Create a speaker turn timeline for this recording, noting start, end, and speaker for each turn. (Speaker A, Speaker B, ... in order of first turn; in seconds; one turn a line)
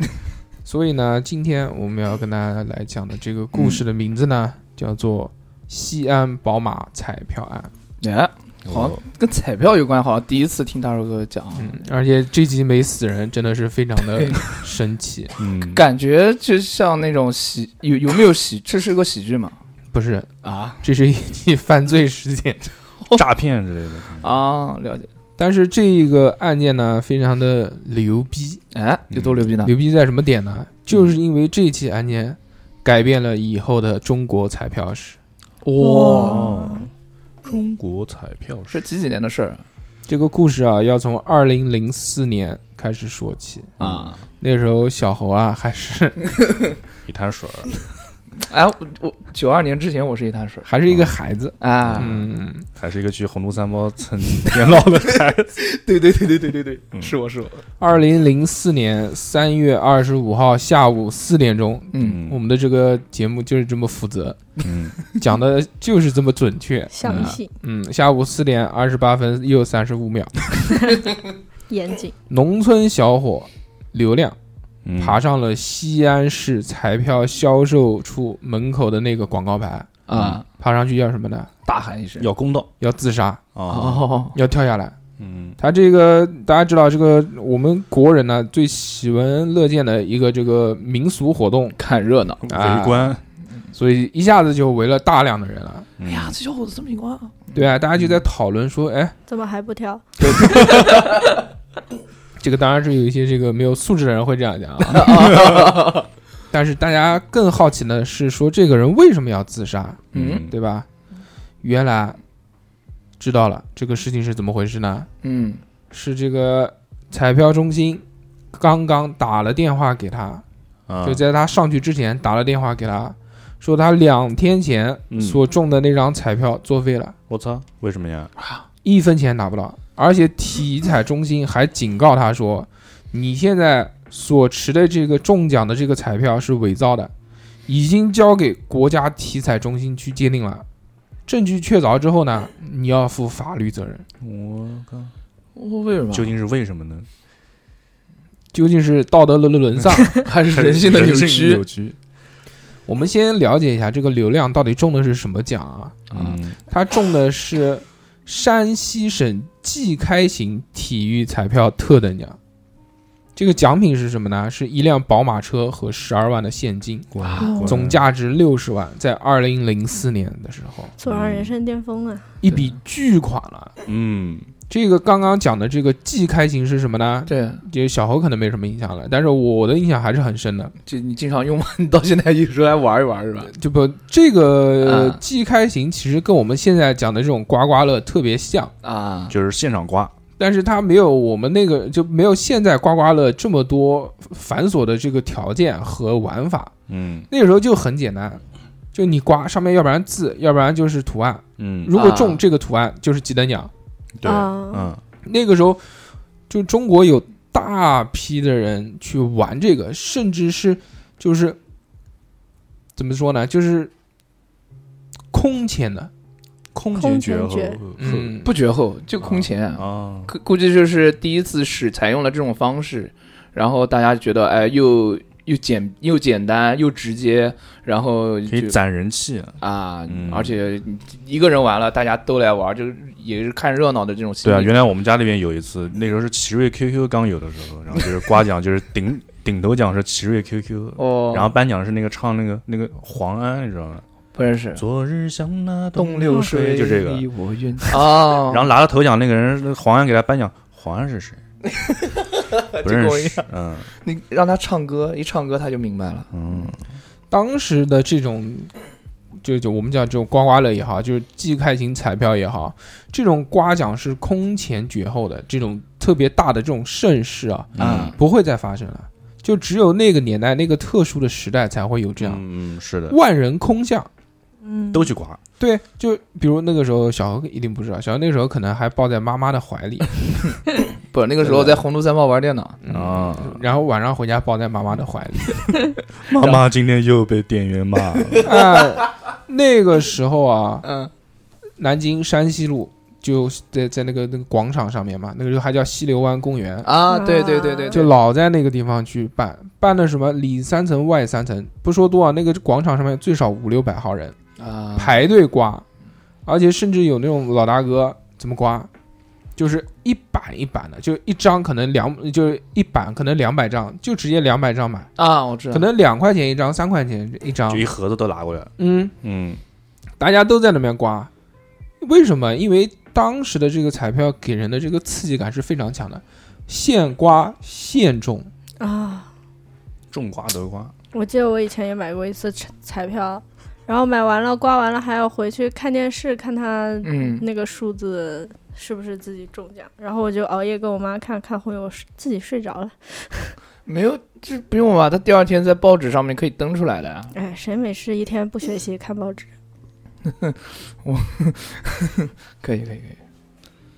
Speaker A: 0.7-7.7
Speaker B: 8.0-11.8
Speaker C: 8.7-9.0
Speaker A: 11.6-15.3
Speaker B: 14.2-14.4
Speaker C: 15.4-15.8
Speaker B: 15.7-19.6
Speaker A: 19.9-22.7
Speaker B: 20.4-20.8
Speaker C: 23.1-24.3
Speaker B: 24.2-25.1
Speaker A: 25.4-28.6
Speaker B: 28.7-29.8
Speaker C: 29.1-29.5
Speaker A: 29.6-35.2
Speaker B: 35.6-36.7
Speaker D: 35.8-36.9
Speaker C: 36.1-36.9
Speaker C: 37.4-38.8
Speaker B: 38.7-39.6
Speaker A: 40.1-43.8
Speaker C: 43.8-44.2
Speaker B: 43.8-44.2
Speaker A: 44.4-46.2
Speaker C: 47.1-47.8
Speaker B: 48.4-50.7
Speaker A: 50.6-52.7
Speaker C: 50.9-51.1
Speaker B: 51.6-52.2
Speaker C: 51.8-52.2
Speaker C: 52.8-55.6
Speaker B: 55.6-57.6
Speaker A: 57.8-64.4
Speaker B: 61.9-62.2
Speaker C: 62.0-62.4
Speaker C: 64.6-65.0
Speaker A: 65.2-70.7
Speaker D: 66.9-67.5
Speaker B: 67.1-67.3
Speaker D: 71.7-72.1
Speaker A: 72.3-74.4
Speaker C: 74.8-75.2
Speaker A: 75.0-79.9
Speaker B: 80.1-80.5
Speaker C: 80.1-80.4
Speaker A: 80.6-81.5
Speaker B: 81.7-82.3
Speaker C: 82.2-82.7
Speaker A: 82.8-83.5
Speaker C: 83.5-84.1
Speaker B: 83.7-84.4
Speaker A: 84.3-85.0
Speaker C: 85.2-85.6
Speaker A: 85.6-91.8
Speaker B: 91.8-92.5
Speaker C: 92.4-93.2
Speaker A: 92.5-93.2
Speaker A: 93.7-95.9
Speaker C: 96.0-96.4
Speaker B: 96.0-97.6
Speaker A: 97.5-99.2
Speaker D: 99.3-100.8
Speaker B: 100.2-101.3
Speaker A: 102.4-105.6
Speaker B: 104.9-106.0
Speaker A: 106.5-110.9
Speaker C: 110.1-110.5
Speaker B: 110.1-110.5
Speaker A: 111.6-112.2
Speaker A: 113.2-115.1
Speaker B: 115.2-115.6
Speaker A: 115.9-120.4
Speaker C: 120.9-121.2
Speaker A: 121.0-127.2
Speaker C: 125.1-125.4
Speaker C: 127.3-128.3
Speaker A: 128.8-137.1
Speaker A: 137.7-140.7
Speaker A: 141.3-144.1
Speaker C: 144.2-145.1
Speaker B: 145.6-146.3
Speaker C: 146.1-147.1
Speaker A: 148.5-150.3
Speaker B: 150.1-151.7
Speaker C: 150.5-152.0
Speaker A: 152.9-156.1
Speaker C: 156.1-156.6
Speaker A: 156.7-162.4
Speaker A: 163.4-170.9
Speaker C: 167.1-168.0
Speaker B: 167.2-167.5
Speaker D: 167.4-167.8
Speaker D: 171.0-172.3
Speaker C: 171.1-171.6
Speaker A: 172.4-173.7
Speaker C: 173.8-174.5
Speaker A: 174.7-180.7
Speaker B: 177.3-177.6
Speaker B: 180.8-183.5
Speaker A: 183.5-188.7
Speaker B: 184.8-185.2
Speaker B: 188.8-189.3
Speaker C: 189.3-190.1
Speaker A: 190.4-196.7
Speaker C: 196.9-197.3
Speaker A: 197.3-198.4
Speaker A: 198.9-203.7
Speaker C: 201.6-201.9
Speaker B: 201.9-202.4
Speaker C: 204.2-205.0
Speaker D: 204.2-204.9
Speaker A: 205.2-205.8
Speaker A: 206.5-211.6
Speaker A: 213.0-213.9
Speaker A: 215.3-216.1
Speaker C: 216.7-218.3
Speaker D: 216.9-217.8
Speaker A: 218.0-218.5
Speaker B: 218.4-228.8
Speaker C: 219.2-220.3
Speaker C: 228.5-230.6
Speaker B: 229.6-234.7
Speaker C: 234.4-244.1
Speaker B: 241.0-241.6
Speaker B: 244.3-244.8
Speaker C: 244.8-247.3
Speaker B: 245.9-248.7
Speaker C: 247.8-251.4
Speaker B: 251.7-256.7
Speaker C: 252.8-253.9
Speaker C: 256.3-256.8
Speaker A: 257.3-258.7
Speaker A: 259.4-272.4
Speaker C: 267.8-268.2
Speaker B: 267.8-268.1
Speaker C: 272.2-273.2
Speaker A: 273.1-274.1
Speaker D: 274.6-275.1
Speaker C: 274.9-275.4
Speaker A: 275.6-280.5
Speaker B: 281.1-282.8
Speaker A: 281.4-281.8
Speaker A: 282.8-285.8
Speaker C: 282.9-283.6
Speaker C: 286.3-288.5
Speaker B: 286.4-286.6
Speaker B: 288.3-288.6
Speaker A: 288.4-290.9
Speaker B: 290.8-291.1
Speaker A: 291.8-297.0
Speaker B: 296.8-298.1
Speaker D: 297.1-298.1
Speaker A: 297.9-304.4
Speaker B: 304.6-305.2
Speaker A: 305.0-305.9
Speaker A: 306.5-308.9
Speaker A: 309.6-315.1
Speaker B: 315.2-315.9
Speaker A: 315.7-317.9
Speaker C: 317.7-319.6
Speaker A: 318.8-319.1
Speaker A: 320.2-321.3
Speaker A: 322.0-328.5
Speaker D: 328.8-329.3
Speaker C: 330.1-330.9
Speaker D: 331.1-343.6
Speaker B: 337.0-337.4
Speaker B: 343.9-347.3
Speaker D: 347.3-349.5
Speaker B: 350.2-353.2